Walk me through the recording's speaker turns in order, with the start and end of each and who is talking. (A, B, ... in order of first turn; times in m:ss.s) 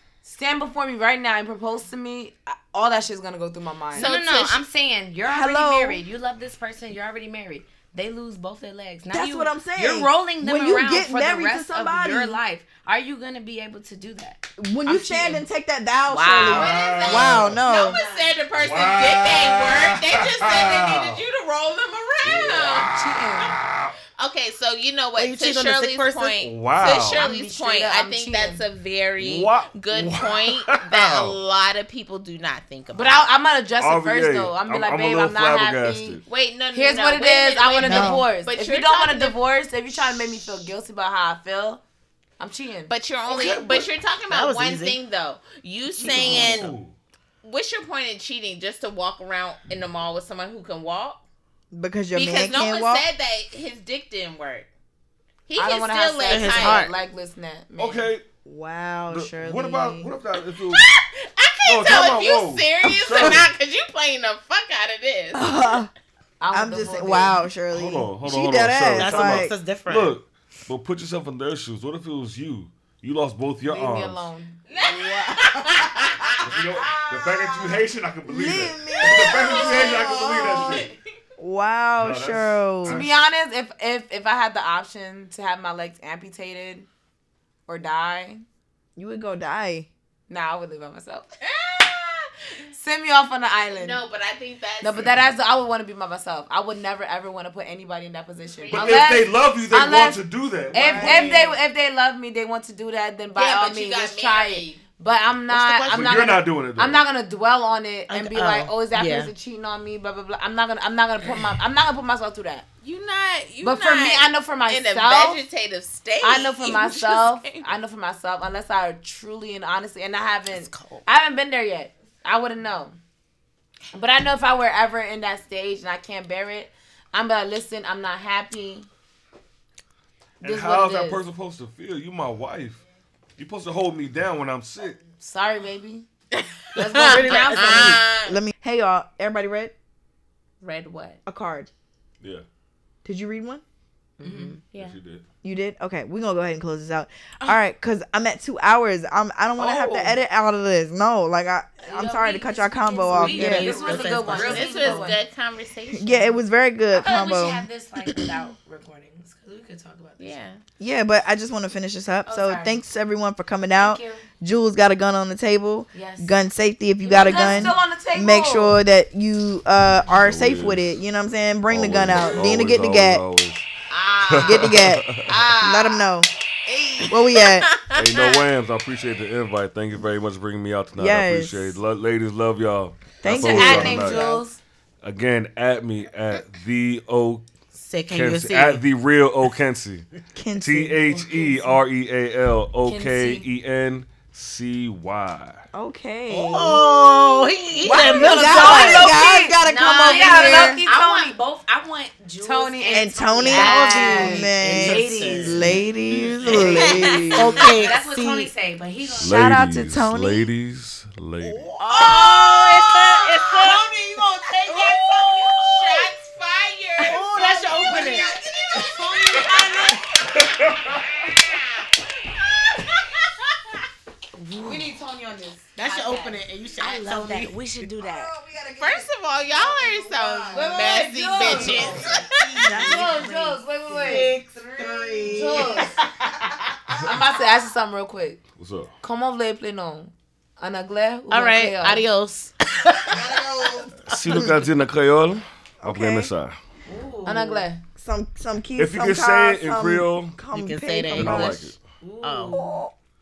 0:00.2-0:04.1 A
0:03.9-0:04.6 B
0:04.0-0:15.4 C
0:05.3-0:06.0 D
0:09.1-0:12.4 D
0:14.6-0:18.0 D
0:16.1-0:16.7 C
0:16.4-0:23.5 B
0:16.5-0:17.6 E
0:17.7-0:18.3 C
0:18.6-0:21.2 E
0:22.2-0:22.8 E
0:22.7-0:23.5 A
0:23.6-0:23.9 E
0:24.2-0:33.2 B
0:25.2-0:26.4 F
0:26.4-0:27.2 E
0:26.9-0:27.4 F
0:27.2-0:28.6 A
0:29.2-0:31.4 E
0:32.9-0:36.2 A
0:33.8-0:36.2 E
0:36.3-0:39.4 B
0:36.7-0:41.8 A
0:37.8-0:38.3 D
0:42.4-0:42.9 A
0:42.9-0:46.7 B
0:43.3-0:45.0 F
0:46.0-0:46.7 F
0:46.0-0:46.9 E
0:47.4-0:51.2 B
0:51.7-0:53.0 D
0:52.1-0:54.7 B
0:55.5-0:56.9 B
0:55.6-0:58.1 A
0:56.3-0:56.9 F
0:57.8-0:58.2 E
0:58.4-1:00.1 D
0:59.1-1:00.8 E
1:00.5-1:05.7 B
1:01.7-1:03.5 E
1:05.3-1:05.9 D
1:06.4-1:07.5 A
1:06.5-1:09.5 D
1:07.7-1:14.2 E
1:08.9-1:10.2 F
1:13.6-1:14.6 A
1:14.7-1:17.6 B
1:14.8-1:16.0 D
1:16.4-1:20.9 E
1:18.3-1:23.0 D
1:19.0-1:21.0 B
1:22.0-1:23.1 E
1:22.9-1:26.9 A
1:27.7-1:28.4 A
1:29.0-1:29.9 D
1:30.3-1:31.3 A
1:31.4-1:32.4 B
1:32.7-1:34.0 A
1:33.7-1:35.3 B
1:34.8-1:52.7 A
1:38.6-1:39.3 B
1:38.7-1:41.4 E
1:40.7-1:41.5 D
1:43.4-1:44.8 B
1:45.5-1:46.3 F
1:45.9-1:47.0 E
1:48.1-1:49.3 F
1:52.8-1:57.7 B
1:53.6-1:55.4 A
1:56.2-2:03.0 A
2:00.5-2:01.0 F
2:03.9-2:08.9 A
2:10.4-2:12.8 E
2:10.4-2:11.2 A
2:13.4-2:15.1 E
2:15.1-2:16.1 A
2:16.3-2:18.4 B
2:16.8-2:18.0 F
2:16.8-2:18.1 A
2:18.2-2:19.7 D
2:20.6-2:21.2 B
2:21.3-2:21.7 D
2:23.0-2:23.6 D
2:24.2-2:24.6 F
2:24.2-2:24.6 C
2:24.7-2:25.2 E
2:24.7-2:25.0 B
2:25.4-2:33.8 D
2:29.6-2:30.2 F
2:31.8-2:35.2 C
2:33.1-2:35.2 A
2:33.2-2:34.7 F
2:34.3-2:36.4 B
2:35.9-2:38.3 D
2:36.9-2:40.4 C
2:40.2-2:40.6 B
2:40.8-2:53.2 D
2:42.3-2:42.8 C
2:43.8-2:44.2 C
2:45.9-2:46.3 C
2:47.0-2:47.8 C
2:47.0-2:48.8 A
2:50.1-2:50.9 E
2:51.7-2:53.7 E
2:53.9-2:55.6 B
2:54.2-2:55.5 E
2:54.4-2:56.3 D
2:55.5-2:55.9 A
2:56.7-2:58.4 B
2:57.1-2:57.7 D
2:57.9-3:04.4 E
3:01.0-3:01.8 D
3:03.2-3:04.3 D
3:03.2-3:04.6 A
3:05.0-3:07.4 E
3:07.7-3:08.8 F
3:08.1-3:10.1 E
3:10.4-3:11.1 D
3:10.6-3:15.6 E
3:11.3-3:11.7 A
3:12.8-3:13.5 A
3:15.7-3:17.2 D
3:16.3-3:19.1 F
3:17.8-3:20.8 D
3:17.8-3:21.4 A
3:18.6-3:18.9 C
3:19.6-3:24.5 C
3:22.4-3:25.7 A
3:22.9-3:27.7 D
3:23.6-3:25.8 F
3:26.4-3:28.5 F
3:27.4-3:29.4 C
3:29.2-3:31.7 E
3:29.2-3:30.5 D
3:31.6-3:32.6 F
3:31.8-3:32.4 C
3:31.9-3:40.5 B
3:33.5-3:35.9 F
3:37.0-3:38.3 F
3:37.7-3:38.3 A
3:37.8-3:39.4 D
3:39.0-3:40.0 A
3:39.3-3:39.8 F
3:40.4-3:41.0 E
3:41.3-3:41.6 B
3:44.4-3:44.9 C
3:44.6-3:46.4 A
3:45.8-3:47.6 F
3:46.8-3:48.3 C
3:48.0-3:50.7 D
3:48.8-3:52.7 B
3:50.5-3:52.1 A
3:51.5-3:53.3 D
3:51.6-3:52.0 F
3:52.7-3:53.6 C
3:52.7-3:56.0 A
3:53.9-3:56.0 F
3:55.2-3:55.9 D
3:56.8-3:57.1 D
3:57.0-3:58.4 A
3:58.5-3:58.9 E
3:59.0-4:02.1 A
4:01.3-4:04.5 F
4:03.1-4:04.4 D
4:04.1-4:06.6 E
4:05.8-4:06.3 D
4:06.9-4:07.7 F
4:07.2-4:07.8 A
4:08.0-4:11.7 D
4:08.8-4:10.4 E
4:10.5-4:12.7 F
4:11.1-4:11.8 E
4:12.2-4:12.7 C
4:12.5-4:12.9 D